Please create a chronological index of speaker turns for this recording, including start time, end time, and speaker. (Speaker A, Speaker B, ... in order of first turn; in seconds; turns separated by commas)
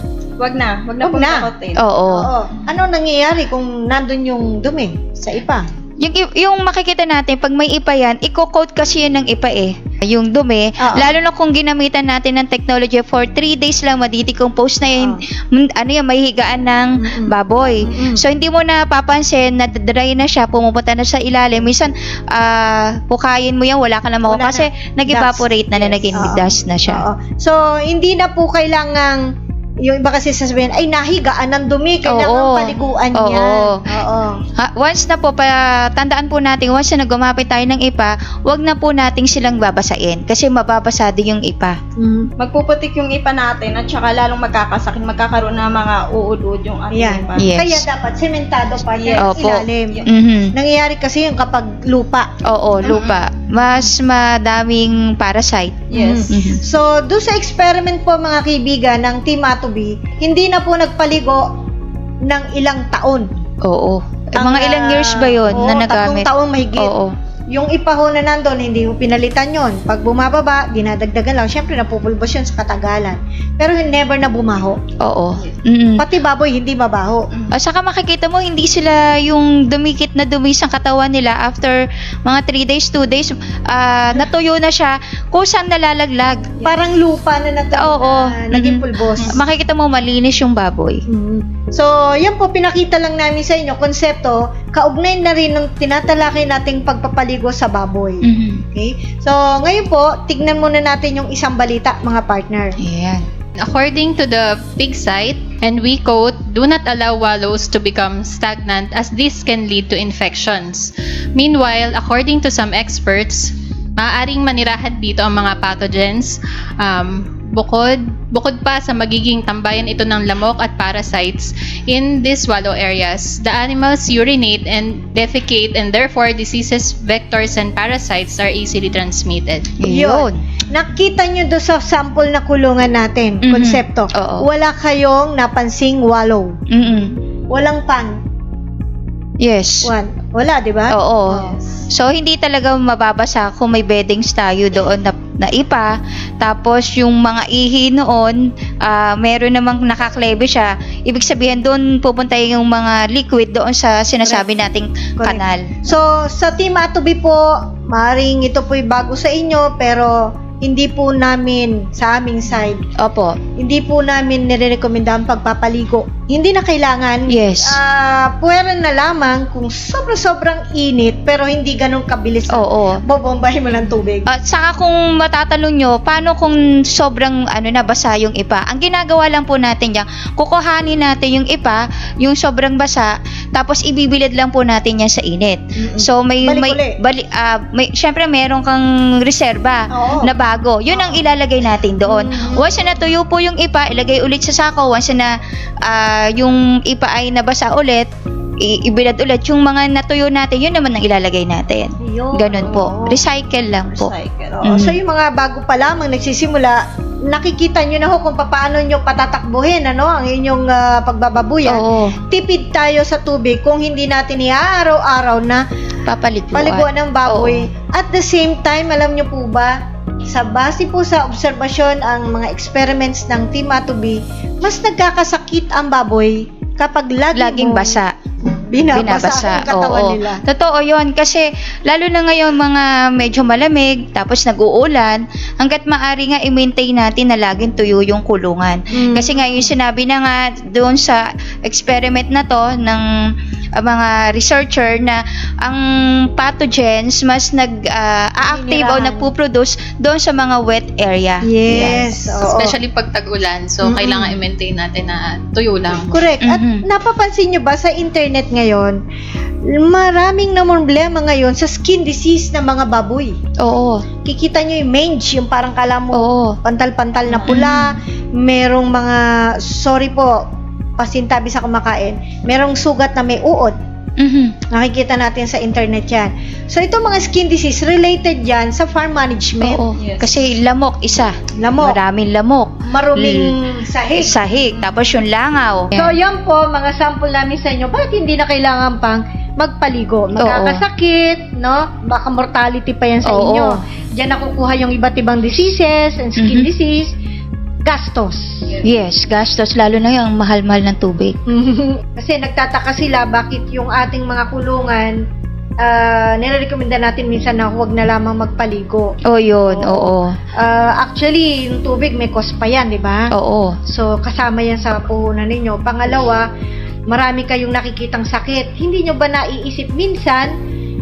Speaker A: 0.4-1.8, Speaker B: 1.0-1.5, Speaker C: 1.8-2.3, Speaker B: 2.1-5.7, Speaker C: 6.0-27.0, Speaker B: 10.8-11.1, Speaker B: 17.0-18.2, Speaker B: 24.2-29.3, Speaker B: 29.8-34.4, Speaker C: 32.0-33.8, Speaker C: 34.6-41.8, Speaker B: 42.0-42.3, Speaker A: 42.4-47.5, Speaker B: 46.9-50.0, Speaker C: 47.4-47.8, Speaker A: 48.9-49.4, Speaker C: 49.2-50.5, Speaker B: 50.5-52.3, Speaker C: 52.5-56.6, Speaker A: 52.8-53.2, Speaker A: 55.9-56.5, Speaker B: 55.9-61.5, Speaker B: 62.2-63.3, Speaker C: 63.6-67.1, Speaker B: 64.4-66.9, Speaker B: 67.5-74.8, Speaker C: 75.0-76.0, Speaker B: 76.0-77.3, Speaker C: 77.5-86.5, Speaker B: 86.6-89.4, Speaker C: 87.8-91.0, Speaker B: 91.1-102.8, Speaker C: 98.2-98.6, Speaker C: 102.8-103.2, Speaker D: 103.6-129.7, Speaker C: 129.8-130.4, Speaker B: 129.9-136.6, Speaker C: 133.4-134.4, Speaker C: 136.7-137.1, Speaker B: 137.5-138.2, Speaker C: 139.4-139.9, Speaker B: 139.8-141.6, Speaker C: 140.9-156.0, Speaker B: 155.2-162.8, Speaker C: 163.0-163.4, Speaker B: 163.6-174.3, Speaker C: 167.3-167.8, Speaker C: 172.5-173.0, Speaker C: 174.3-198.1, Speaker B: 185.8-187.0, Speaker B: 189.9-190.3, Speaker B: 190.9-191.2, Speaker B: 192.0-192.7, Speaker C: 198.6-204.1, Speaker B: 202.0-203.2, Speaker A: 203.9-204.6, Speaker B: 204.6-215.6, Speaker C: 204.6-205.0, Speaker C: 211.7-212.2, Speaker C: 216.1-217.7, Speaker B: 216.5-230.4, Speaker C: 227.3-228.1, Speaker C: 228.9-243.1, Speaker B: 238.9-239.7, Speaker C: 243.8-252.3, Speaker B: 248.4-249.3, Speaker B: 251.4-252.7, Speaker D: 252.4-256.2, Speaker C: 253.9-254.3, Speaker B: 256.1-259.0, Speaker C: 256.4-256.8, Speaker B: 259.6-263.4, Speaker C: 263.6-264.0, Speaker B: 264.2-270.4, Speaker C: 266.1-266.6, Speaker A: 267.3-267.6, Speaker C: 267.5-268.0, Speaker B: 271.0-273.7, Speaker C: 274.2-274.6, Speaker B: 274.7-279.8, Speaker C: 279.6-283.5, Speaker A: 280.0-280.4, Speaker B: 281.6-282.0, Speaker B: 282.9-284.4, Speaker C: 284.1-286.1, Speaker B: 285.9-297.1, Speaker C: 290.4-290.8, Speaker C: 293.2-293.8, Speaker C: 296.4-296.7, Speaker B: 297.9-298.6, Speaker C: 298.8-301.4, Speaker B: 301.5-305.2, Speaker B: 305.8-309.1, Speaker C: 309.3-310.4, Speaker B: 309.6-313.3, Speaker C: 313.3-313.8, Speaker B: 313.9-316.4, Speaker B: 317.1-320.5